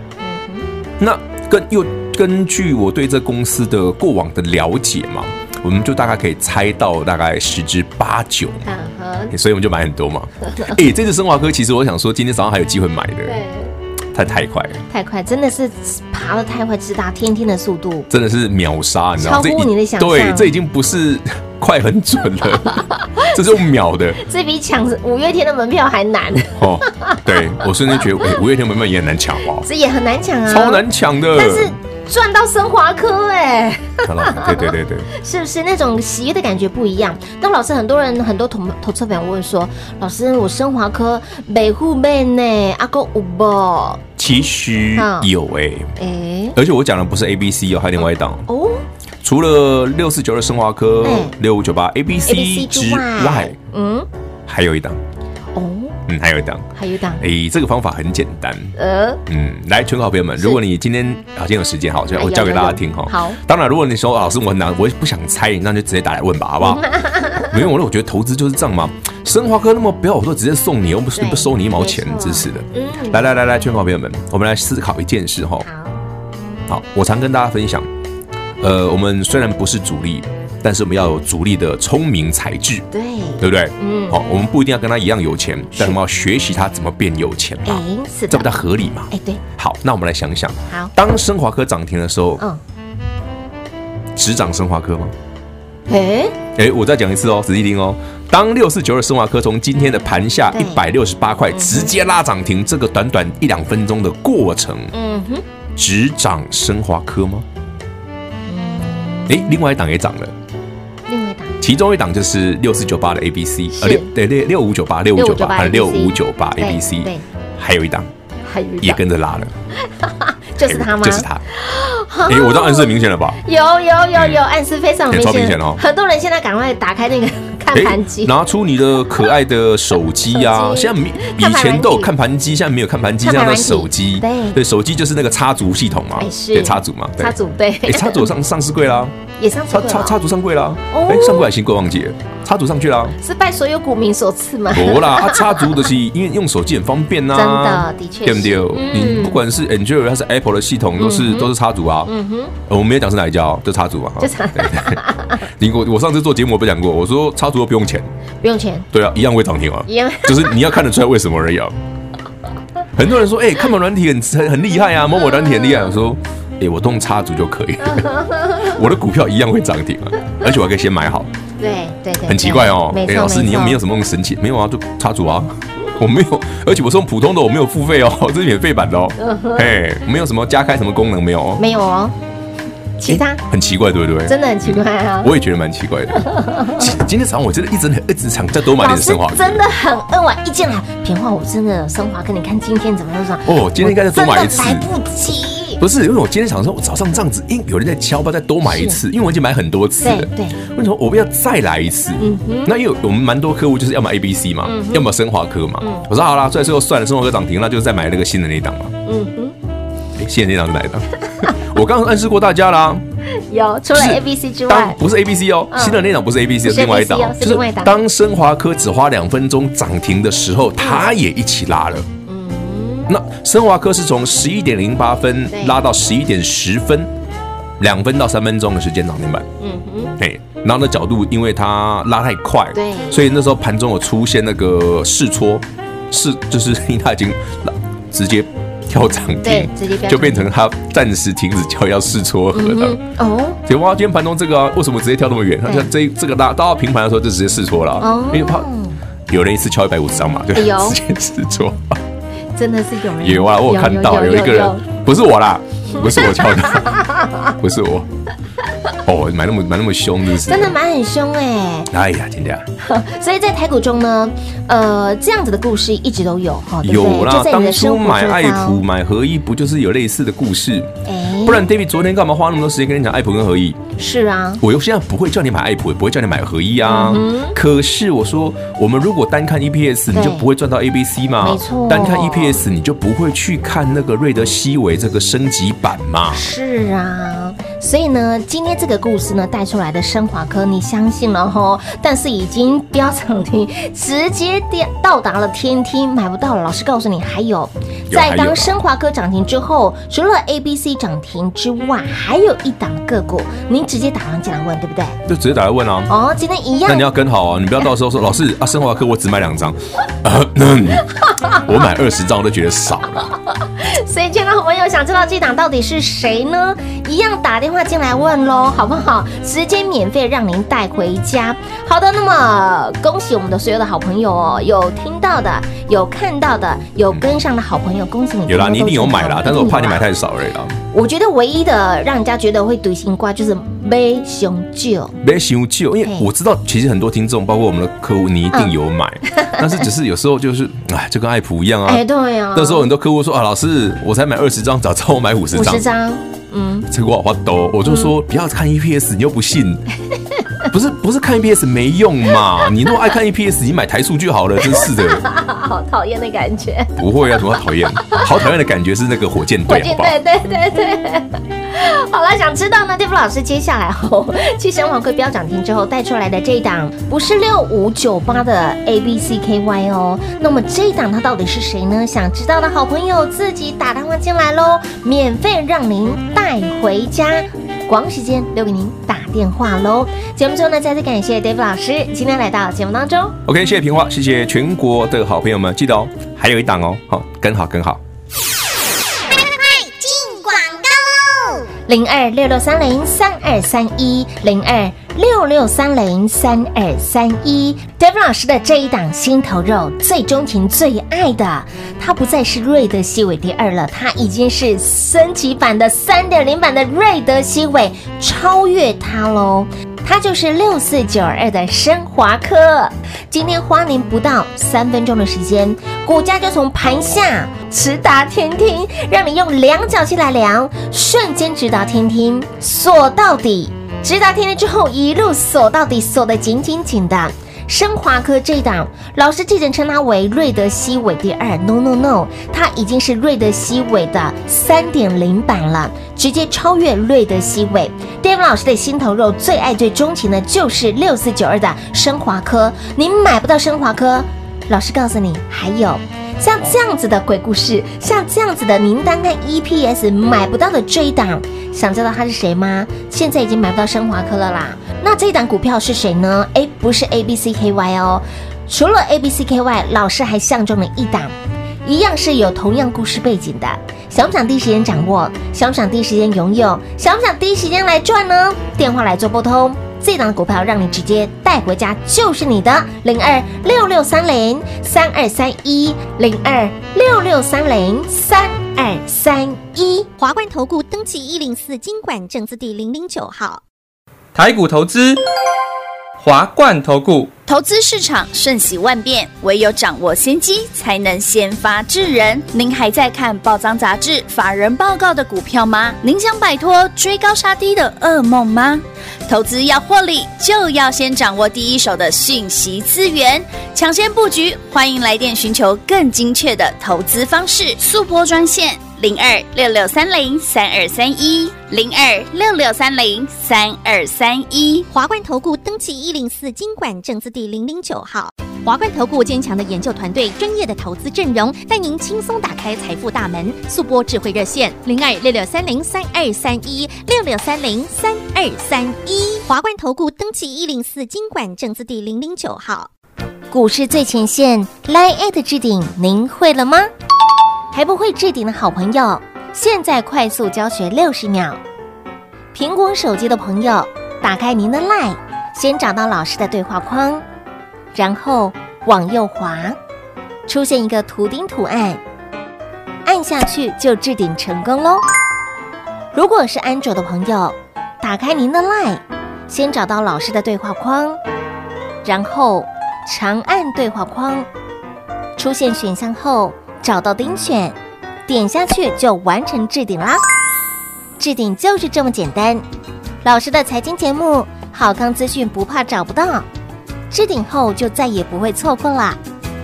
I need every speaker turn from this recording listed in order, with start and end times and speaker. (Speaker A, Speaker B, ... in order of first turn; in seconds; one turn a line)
Speaker A: 0.2-0.7
Speaker B: 1.0-8.7
Speaker A: 8.6-9.3
Speaker B: 9.3-13.4
Speaker A: 13.2-13.7
Speaker B: 14.1-14.8
Speaker A: 14.9-18.1
Speaker B: 18.1-24.2
Speaker A: 19.2-20.5
Speaker A: 22.7-23.4
Speaker A: 24.2-28.4
Speaker B: 26.6-29.6
Speaker A: 29.6-44.0
Speaker B: 30.5-31.7
Speaker B: 34.0-35.1
Speaker B: 44.2-45.9
Speaker A: 44.9-45.3
Speaker A: 46.0-46.6
Speaker B: 46.5-48.4
Speaker A: 48.5-48.8
Speaker B: 49.2-53.5
Speaker A: 51.0-51.3
Speaker A: 52.3-54.1
Speaker B: 54.5-55.0
Speaker A: 55.5-56.0
Speaker B: 56.1-56.7
Speaker A: 56.7-57.2
Speaker B: 57.2-58.7
Speaker A: 58.8-59.2
Speaker B: 59.2-75.7
Speaker A: 62.1-63.4
Speaker A: 66.6-67.7
Speaker A: 71.1-73.2
Speaker A: 75.6-76.0
Speaker B: 76.7-77.9
Speaker B: 78.6-82.8
Speaker A: 82.9-84.2
Speaker B: 83.4-92.4
Speaker A: 87.6-89.4
Speaker B: 94.2-95.1
Speaker A: 95.9-96.3
Speaker B: 96.5-104.9
Speaker A: 100.5-100.8
Speaker A: 101.5-101.9
Speaker A: 104.9-105.4
Speaker B: 105.8-107.4
Speaker A: 108.5-109.6
Speaker B: 109.3-110.3
Speaker A: 111.1-111.6
Speaker B: 111.6-118.1
Speaker A: 113.7-114.1
Speaker A: 115.1-117.2
Speaker A: 118.5-119.0
Speaker B: 118.8-119.5
Speaker A: 119.8-128.3
Speaker B: 120.6-121.4
Speaker B: 122.2-123.4
Speaker B: 124.1-124.4
Speaker B: 125.1-125.8
Speaker B: 127.7-139.1
Speaker A: 130.3-132.1
Speaker A: 133.2-134.6
Speaker A: 136.2-138.3
Speaker A: 139.4-140.2
Speaker B: 139.7-143.1
Speaker A: 140.9-141.5
Speaker A: 143.2-145.9
Speaker B: 144.7-152.1
Speaker A: 147.3-149.4
Speaker A: 151.0-151.5
Speaker A: 152.1-152.5
Speaker B: 152.7-158.1
Speaker A: 154.2-155.4
Speaker A: 158.4-158.9
Speaker B: 158.9-161.8
Speaker A: 159.9-160.6
Speaker B: 162.9-171.3
Speaker A: 165.4-165.8
Speaker A: 167.8-168.7
Speaker A: 171.6-173.8
Speaker B: 172.2-181.6
Speaker A: 179.2-179.7
Speaker A: 181.6-182.1
Speaker A: 183.0-183.4
Speaker B: 183.0-189.7
Speaker A: 184.3-185.3
Speaker A: 186.2-186.8
Speaker A: 188.7-195.8
Speaker B: 193.4-194.9
Speaker B: 195.8-208.9
Speaker A: 198.6-199.0
Speaker A: 200.0-200.6
Speaker A: 202.2-202.7
Speaker A: 204.6-205.1
Speaker A: 205.8-206.1
Speaker A: 209.1-209.5
Speaker B: 210.2-213.0
Speaker A: 213.3-215.0
Speaker B: 213.9-222.1
Speaker A: 215.7-216.0
Speaker A: 216.6-218.0
Speaker A: 220.8-221.1
Speaker A: 222.2-223.1
Speaker B: 223.1-227.1
Speaker A: 225.5-225.8
Speaker B: 227.8-229.5
Speaker A: 229.6-230.1
Speaker B: 230.2-243.0
Speaker A: 232.7-233.2
Speaker A: 239.4-240.5
Speaker A: 242.5-243.6
Speaker B: 243.6-248.7
Speaker A: 248.0-249.0
Speaker B: 249.3-252.0
Speaker A: 250.5-251.0
Speaker A: 252.5-254.8
Speaker B: 253.2-257.0
Speaker A: 255.9-257.5
Speaker B: 257.6-258.1
Speaker B: 259.0-260.8
Speaker A: 260.4-261.9
Speaker B: 261.9-262.6
Speaker A: 262.8-268.8
Speaker B: 266.8-273.8
Speaker A: 271.1-271.7
Speaker A: 274.0-274.6
Speaker B: 274.6-286.5
Speaker A: 276.8-277.5
Speaker A: 280.1-280.4
Speaker A: 281.4-282.6
Speaker A: 286.3-305.2
Speaker B: 298.1-298.8
Speaker B: 305.2-306.1
Speaker A: 306.1-307.1
Speaker B: 306.9-313.3
Speaker A: 311.1-311.8
Speaker A: 313.4-330.1
Speaker B: 328.5-330.8
Speaker A: 330.9-335.2
Speaker B: 335.2-345.9
Speaker A: 339.3-339.6
Speaker A: 341.9-342.9
Speaker A: 345.5-346.9
Speaker B: 346.9-349.9
Speaker A: 347.8-348.1
Speaker B: 350.7-355.2
Speaker A: 354.6-358.3
Speaker B: 357.0-360.2
Speaker A: 359.7-383.4
Speaker B: 383.4-388.0
Speaker C: 389.1-391.6
Speaker A: 391.9-461.3
Speaker A: 461.8-480.1
Speaker D: 480.2-483.6
Speaker E: 484.3-485.2
Speaker E: 486.2-487.3
Speaker F: 487.5-514.9
Speaker D: 514.9-532.9
Speaker A: 533.5-536.9
Speaker A: 537.7-541.6
Speaker A: 542.5-547.2
Speaker A: 547.9-549.8
Speaker A: 550.5-552.0
Speaker A: 553.0-555.0
Speaker A: 556.1-561.2
Speaker A: 562.0-564.5
Speaker A: 565.4-570.2
Speaker A: 571.2-572.6
Speaker A: 573.2-576.5
Speaker A: 577.1-579.2